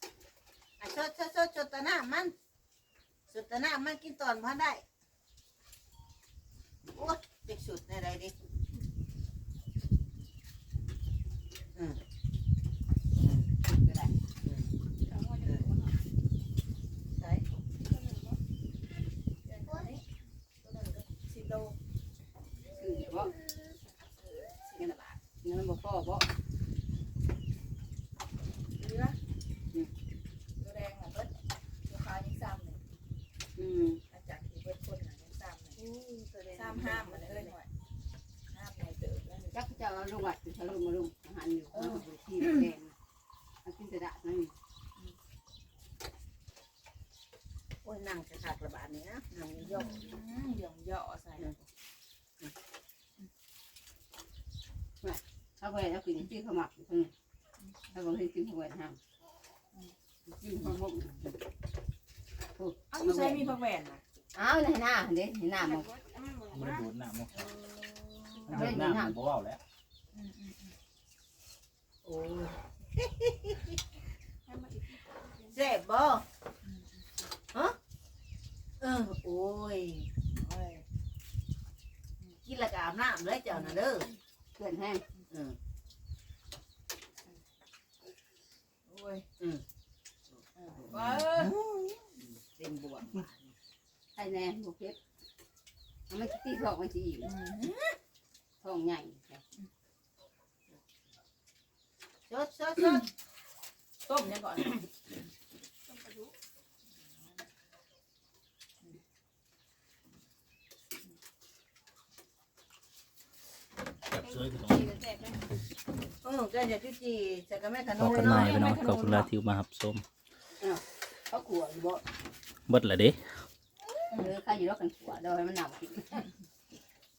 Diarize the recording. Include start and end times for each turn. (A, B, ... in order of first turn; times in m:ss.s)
0:00.8-0:02.3 A
0:03.3-0:04.8 A
0:06.9-0:08.3 A
0:11.7-0:12.0 A
0:13.2-0:13.4 A
0:13.6-0:14.1 B
0:14.4-0:14.7 A
0:15.0-0:15.9 C
0:15.4-0:15.7 A
0:17.8-0:18.4 C
0:19.4-0:20.0 D
0:20.6-0:21.8 D
0:22.7-0:23.3 B
0:23.6-0:25.2 D
0:24.8-0:26.3 B
0:28.8-0:29.2 D
0:30.6-0:31.3 D
0:31.8-0:32.8 D
0:33.6-0:34.0 B
0:34.1-0:35.8 D
0:35.8-0:37.5 A
0:36.5-0:37.7 D
0:38.5-0:39.5 D
0:39.5-0:42.9 B
0:41.7-0:42.6 D
0:43.6-0:44.5 B
0:47.8-0:50.1 A
0:49.6-0:51.6 D
0:55.0-0:57.1 B
0:57.9-0:59.0 B
1:00.3-1:01.4 B
1:02.6-1:03.5 B
1:02.9-1:04.0 D
1:04.3-1:05.9 B
1:05.6-1:06.9 C
1:06.5-1:07.5 E
1:07.3-1:08.7 D
1:08.5-1:09.6 E
1:08.5-1:09.2 B
1:10.1-1:10.7 D
1:12.0-1:13.8 A
1:14.4-1:15.6 C
1:15.5-1:16.2 A
1:16.6-1:17.2 D
1:18.8-1:20.1 A
1:20.4-1:20.8 D
1:22.4-1:24.1 A
1:23.5-1:23.8 D
1:24.6-1:25.0 B
1:25.3-1:25.6 A
1:28.8-1:29.2 D
1:30.6-1:31.5 D
1:30.9-1:33.5 A
1:34.1-1:35.0 B
1:36.1-1:37.3 B
1:37.2-1:37.8 D
1:38.6-1:39.4 B
1:42.3-1:43.0 A
1:44.0-1:44.9 D
1:45.9-1:46.3 C
1:54.1-1:54.9 E
1:54.2-1:55.4 C
1:56.2-1:58.6 A
1:57.9-2:00.0 E
1:58.0-1:59.3 D
2:00.6-2:02.0 B
2:02.7-2:03.4 E
2:04.1-2:06.2 B